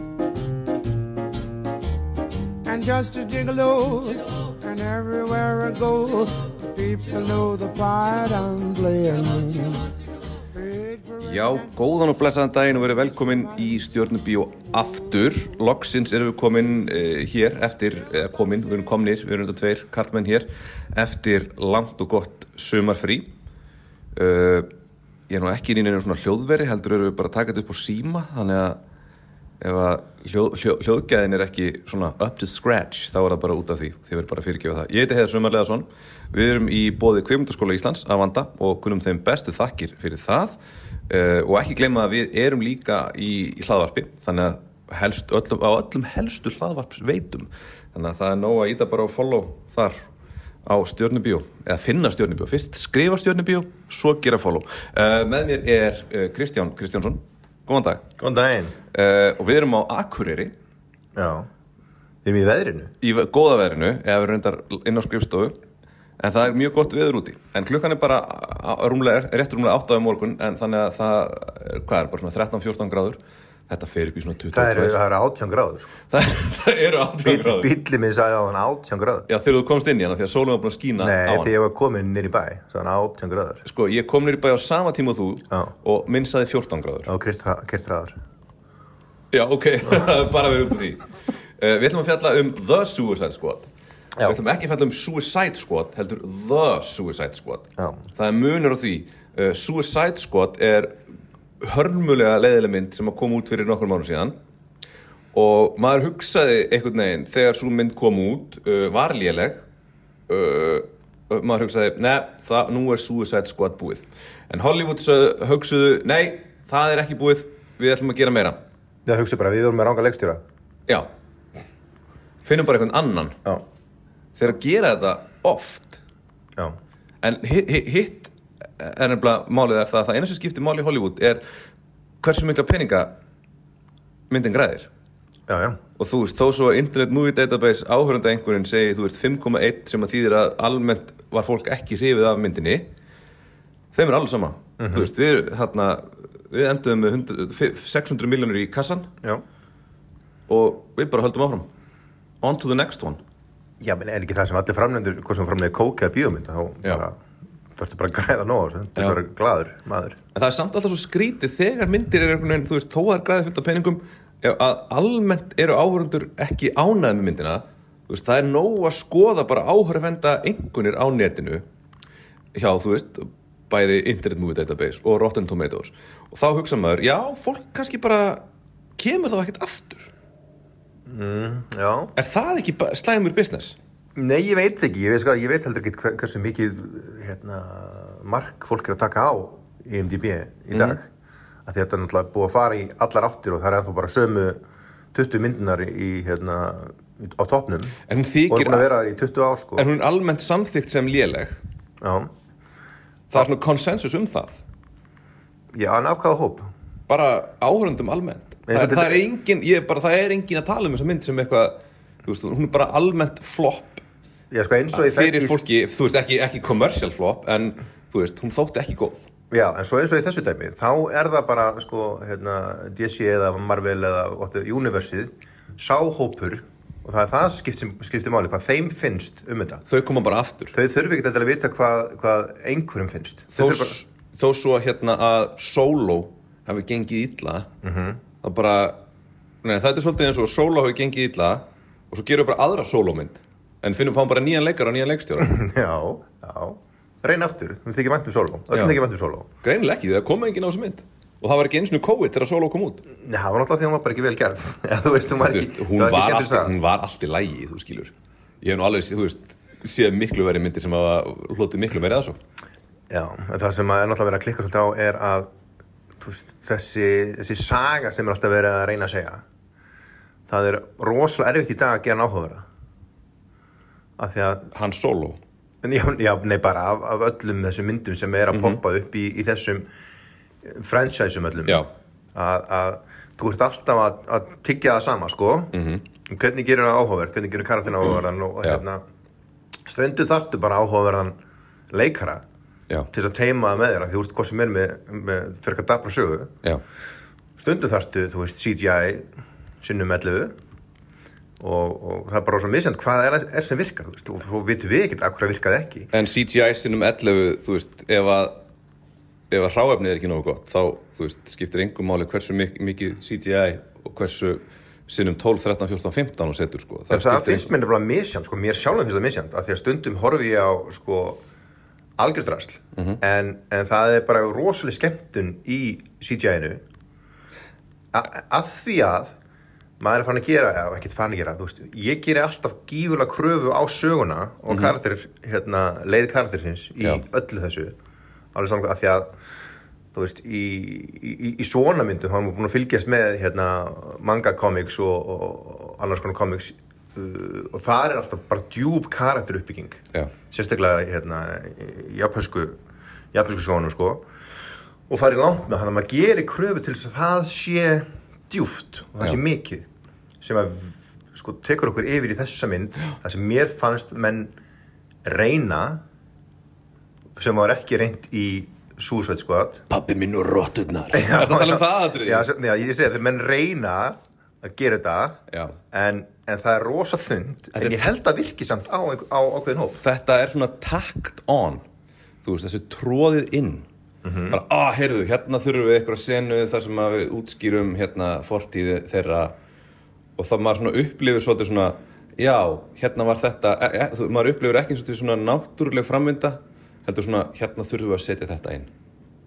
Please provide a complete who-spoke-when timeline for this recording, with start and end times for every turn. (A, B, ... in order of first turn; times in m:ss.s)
0:02.6-0:09.9 A
0:10.5-0:11.9 A
0:11.2-0:23.3 B
0:24.1-0:24.7 B
0:25.3-0:28.8 B
0:29.6-0:40.6 B
0:41.1-0:50.0 B
0:50.6-0:58.0 B
0:58.2-0:58.8 C
0:58.9-1:00.5 B
1:01.2-1:01.5 C
1:02.2-1:02.9 C
1:03.0-1:05.6 B
1:06.2-1:15.0 B
1:14.5-1:16.0 C
1:16.1-1:17.7 B
1:17.2-1:19.3 C
1:19.3-1:21.5 B
1:21.0-1:23.6 C
1:23.6-1:27.1 B
1:27.1-1:28.2 C
1:29.3-1:31.0 B
1:31.6-1:33.7 B
1:34.2-1:41.0 B
1:41.6-1:44.4 B
1:45.3-1:49.6 B
1:50.3-1:58.6 B
1:59.1-2:00.4 C
2:02.4-2:03.4 B
2:04.4-2:06.0 B
2:07.2-2:11.4 B
2:12.2-2:13.1 B
2:14.3-2:14.9 B
2:15.5-2:15.8 C
2:16.0-2:22.9 B
2:23.9-2:29.1 B
2:24.8-2:25.1 C
2:30.5-2:31.7 B
2:32.4-2:33.2 B
2:33.8-2:37.2 C
2:37.8-2:40.2 C
2:40.3-2:51.6 B
2:52.6-2:58.4 B
2:59.0-3:00.1 B
3:01.1-3:02.1 C
3:02.2-3:03.8 B
3:04.2-3:11.1 C
3:11.7-3:14.6 C
3:15.1-3:18.0 C
3:18.1-3:18.9 B
3:18.5-3:19.9 C
3:19.8-3:21.6 B
3:22.0-3:22.3 C
3:23.3-3:24.6 B
3:25.7-3:26.7 C
3:27.1-3:34.0 B
3:28.7-3:29.2 C
3:34.5-3:35.6 C
3:34.9-3:39.3 B
3:39.5-3:49.8 C
3:49.9-3:50.7 B
3:50.7-3:54.0 C
3:53.5-3:57.7 B
3:57.8-3:58.2 C
3:58.4-3:59.0 B
3:59.6-4:05.6 B
4:05.4-4:09.5 C
4:08.7-4:09.0 B
4:09.6-4:13.0 B
4:13.1-4:16.7 C
4:15.4-4:22.4 B
4:23.1-4:25.5 C
4:26.2-4:29.4 C
4:30.5-4:32.6 C
4:34.2-4:34.7 C
4:34.7-4:35.4 B
4:35.8-4:39.9 C
4:38.5-4:38.8 B
4:40.6-4:45.8 C
4:45.7-4:46.0 B
4:46.3-4:49.0 C
4:49.9-4:51.4 C
4:51.9-4:52.4 C
4:53.1-4:56.5 C
4:57.6-4:59.3 C
4:59.8-5:00.5 C
5:01.6-5:06.1 C
5:06.1-5:08.6 B
5:09.5-5:17.7 B
5:17.1-5:21.4 C
5:22.2-5:26.8 C
5:28.1-5:29.3 C
5:30.0-5:38.0 C
5:38.5-5:39.3 C
5:40.1-5:52.8 C
5:53.3-5:54.2 C
5:55.1-5:59.8 C
6:00.4-6:04.5 C
6:05.2-6:06.0 C
6:07.4-6:09.8 C
6:09.9-6:12.5 B
6:11.1-6:20.0 C
6:15.5-6:15.8 B
6:17.8-6:18.1 B
6:20.0-6:21.8 B
6:22.4-6:23.9 B
6:24.2-6:24.6 C
6:24.5-6:29.5 B
6:30.4-6:38.9 B